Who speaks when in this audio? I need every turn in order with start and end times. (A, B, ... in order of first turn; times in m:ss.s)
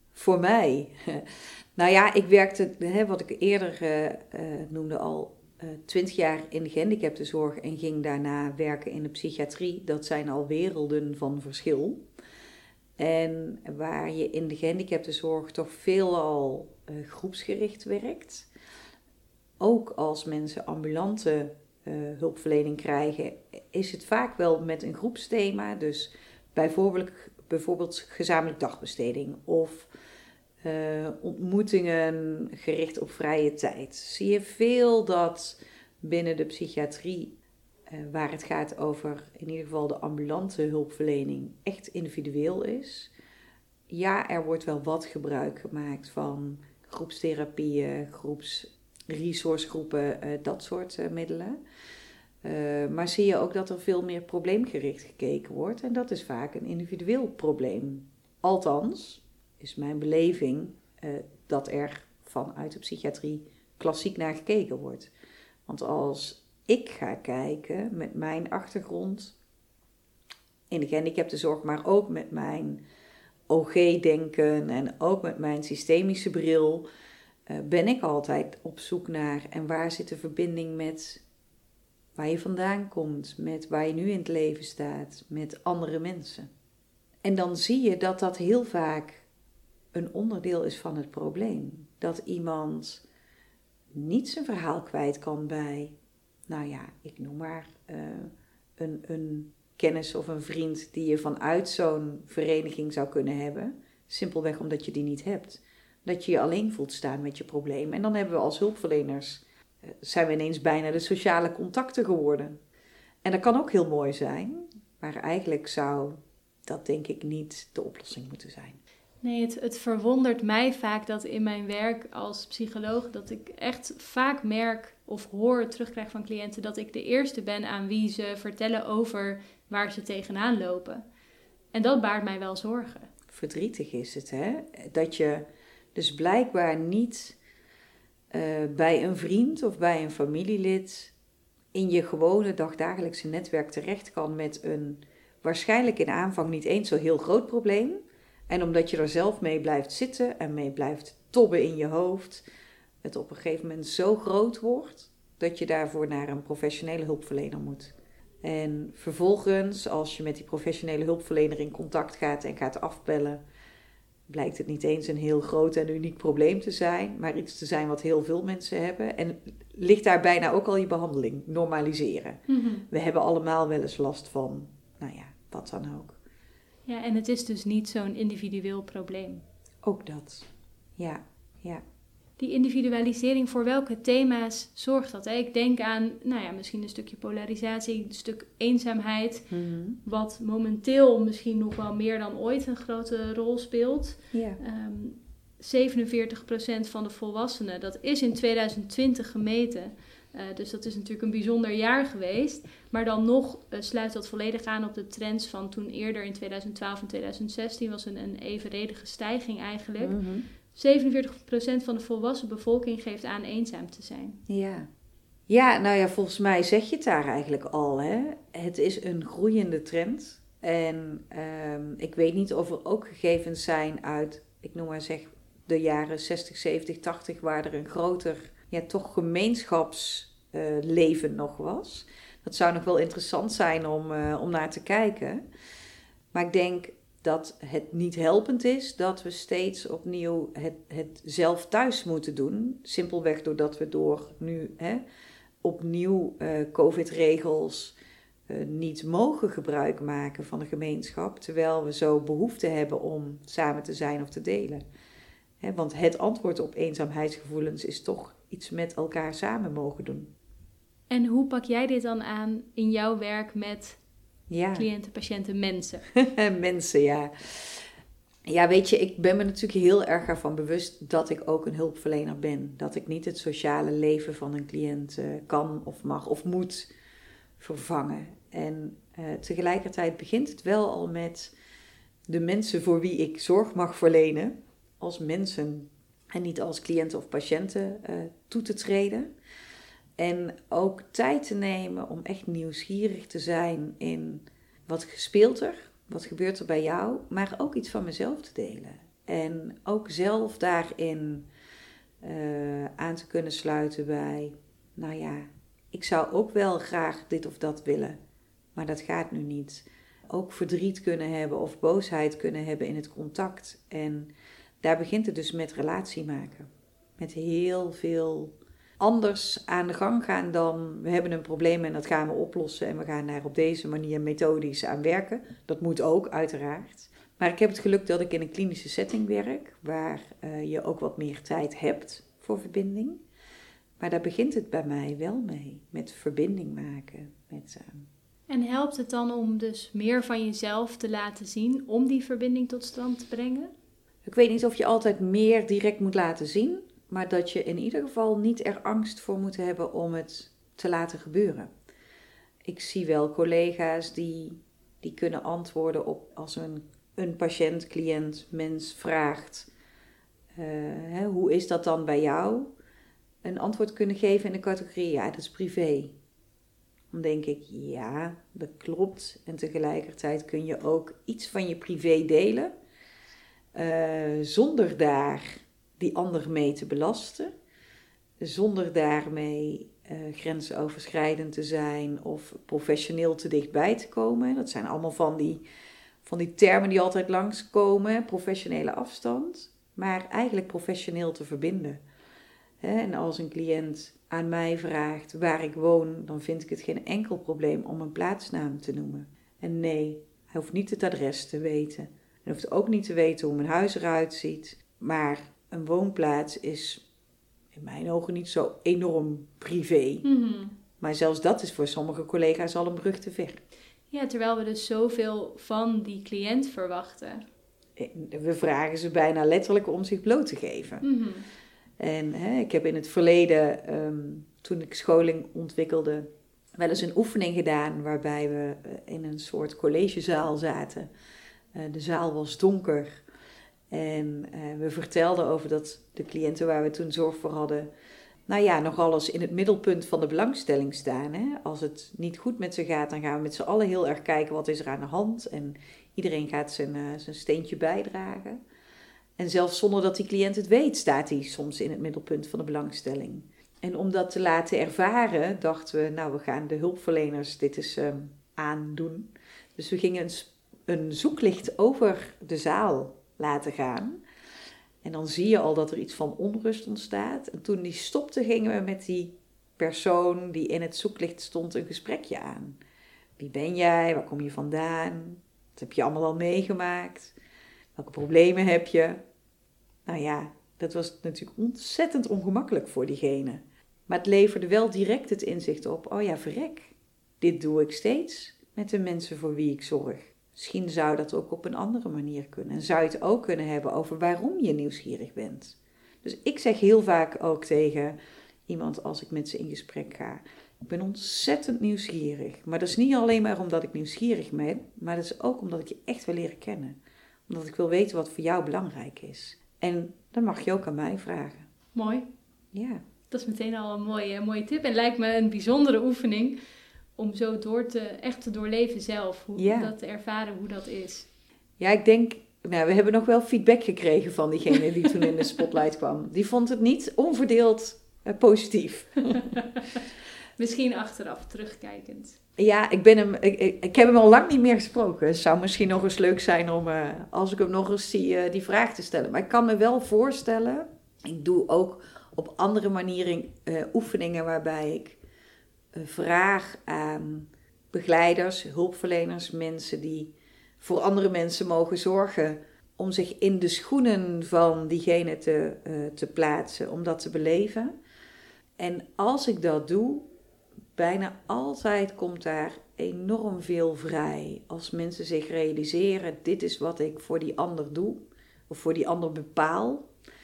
0:00.1-0:12.0 A
0:13.0-0:18.5 A
0:19.6-0:29.9 A
0:30.6-0:37.3 A
0:37.9-0:43.1 A
0:43.9-0:51.6 A
0:52.4-1:05.1 A
1:05.7-1:09.3 A
1:10.7-1:12.8 A
1:13.5-1:16.8 A
1:17.5-1:21.2 A
1:22.1-1:26.5 A
1:27.2-1:29.2 A
1:29.9-1:33.0 A
1:33.9-1:36.0 A
1:36.5-1:52.6 A
1:53.2-1:58.8 A
1:59.2-2:11.0 B
2:11.7-2:13.1 B
2:13.3-2:17.4 A
2:18.3-2:21.1 A
2:21.7-2:32.4 A
2:33.0-2:43.4 A
2:44.3-2:56.2 A
2:52.5-2:52.8 B
2:56.9-2:59.4 B
2:59.8-3:01.8 A
3:02.4-3:09.5 B
3:09.5-3:10.0 A
3:10.0-3:30.2 B
3:14.3-3:14.6 A
3:30.0-3:30.4 A
3:30.7-3:34.4 B
3:34.5-3:34.9 A
3:35.5-3:55.4 A
3:56.3-4:05.0 A
4:05.6-4:08.0 A
4:08.5-4:14.8 A
4:15.6-4:20.3 A
4:21.1-4:24.0 B
4:24.5-4:24.9 A
4:24.8-4:26.0 B
4:26.1-4:27.9 A
4:28.5-4:36.9 A
4:37.6-4:41.5 A
4:42.3-4:49.3 A
4:50.2-5:01.5 A
5:02.2-5:08.2 A
5:08.8-5:14.3 A
5:14.8-5:33.2 A
5:34.0-5:38.1 A
5:38.5-5:43.7 B
5:44.2-5:51.7 A
5:52.6-5:59.7 A
6:00.5-6:02.7 A
6:03.4-6:06.1 A
6:07.1-6:12.7 A
6:13.7-6:17.5 A
6:18.4-6:25.6 A
6:26.2-6:32.0 A
6:32.8-6:47.0 A
6:47.7-6:50.2 A
6:50.2-6:50.7 B
6:51.0-6:53.6 A
6:54.1-6:57.4 B
6:58.0-7:01.0 A
7:01.0-7:01.4 B
7:02.0-7:11.1 A
7:11.7-7:13.2 A
7:13.9-7:17.9 A
7:18.5-7:28.6 A
7:29.4-7:44.2 A
7:45.0-7:52.8 A
7:53.4-7:57.4 A
7:58.0-7:59.2 A
8:00.1-8:18.2 A
8:18.7-8:27.0 A
8:27.5-8:31.7 A
8:31.9-8:32.3 B
8:32.7-8:33.0 A
8:33.3-8:36.6 B
8:37.2-8:41.3 B
8:39.6-8:39.9 A
8:41.8-8:49.6 A
8:49.3-8:50.0 B
8:50.6-8:52.4 B
8:52.6-9:05.2 A
9:05.9-9:17.9 A
9:18.8-9:20.3 A
9:20.9-9:30.1 A